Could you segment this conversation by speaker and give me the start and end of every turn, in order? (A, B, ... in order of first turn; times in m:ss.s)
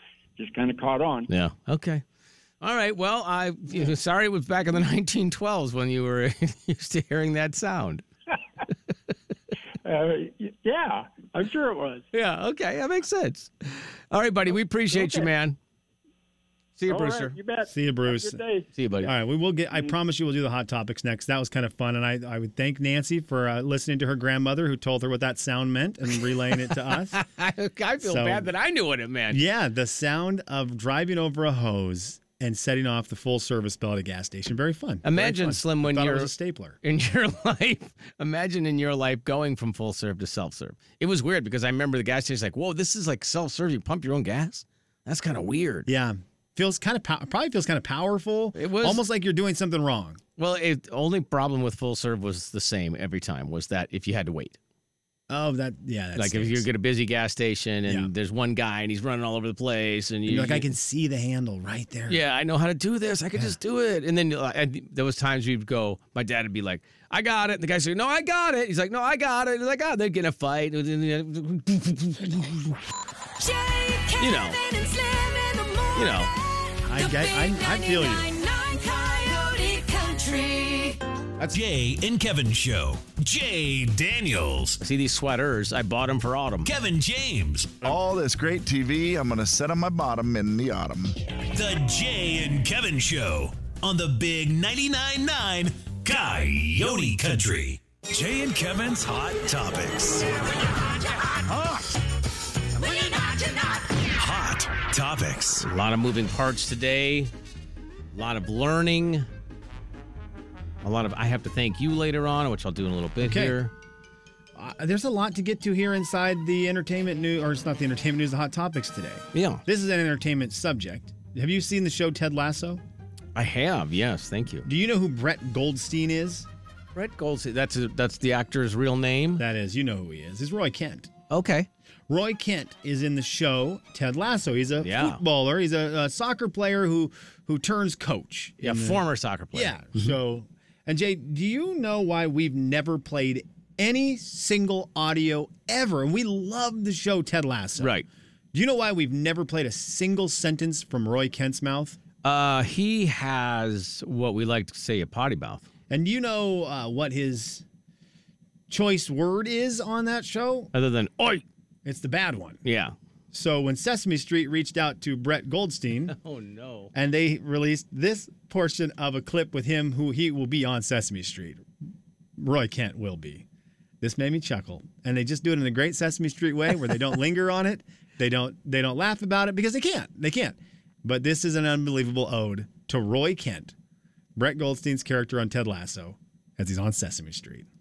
0:00.4-0:01.3 A
0:01.3-0:02.0 B
0:02.6-0:08.0 B
0:09.8-0:12.1 A
0:12.1-0:15.6 B
0:14.9-0:15.3 A
0:16.8-0:17.4 B
0:16.9-0:18.7 A
0:17.7-0:18.4 C
0:18.8-0:19.1 B
0:19.0-0:27.2 C
0:26.7-0:29.4 B
0:28.0-0:28.5 C
0:29.3-0:36.8 C
0:35.0-0:45.9 B
0:45.9-0:50.2 C
0:48.6-0:49.0 B
0:50.4-0:54.6 B
0:55.3-0:56.7 C
0:56.2-1:00.7 B
0:57.9-0:58.1 C
1:00.3-1:02.2 C
1:02.1-1:12.8 B
1:13.4-1:21.0 D
1:14.2-1:14.6 B
1:16.0-1:16.3 B
1:16.8-1:18.3 C
1:21.4-1:24.8 E
1:24.8-1:26.7 B
1:26.6-1:27.8 E
1:27.8-1:31.2 F
1:31.5-1:40.3 E
1:42.9-1:43.5 D
1:44.1-1:45.6 E
1:45.6-1:47.3 B
1:48.1-1:49.3 B
1:50.8-1:53.7 B
1:53.2-1:53.6 C
1:54.6-2:02.8 C
1:59.3-1:59.6 B
2:03.4-2:04.7 B
2:04.6-2:06.5 C
2:07.0-2:09.4 B
2:09.4-2:11.1 C
2:11.3-2:11.7 B
2:12.1-2:28.0 C
2:14.8-2:15.2 B
2:18.6-2:20.2 B
2:27.8-2:28.1 B
2:28.5-2:32.0 C
2:32.2-2:35.6 B
2:35.9-2:37.6 C
2:38.7-2:40.7 C
2:40.7-2:41.4 B
2:41.8-2:42.6 C
2:42.6-2:42.9 B
2:43.3-2:46.2 C
2:46.1-2:46.9 B
2:46.9-2:51.6 C
2:52.4-2:53.4 C
2:54.0-3:03.7 C
3:04.4-3:07.7 C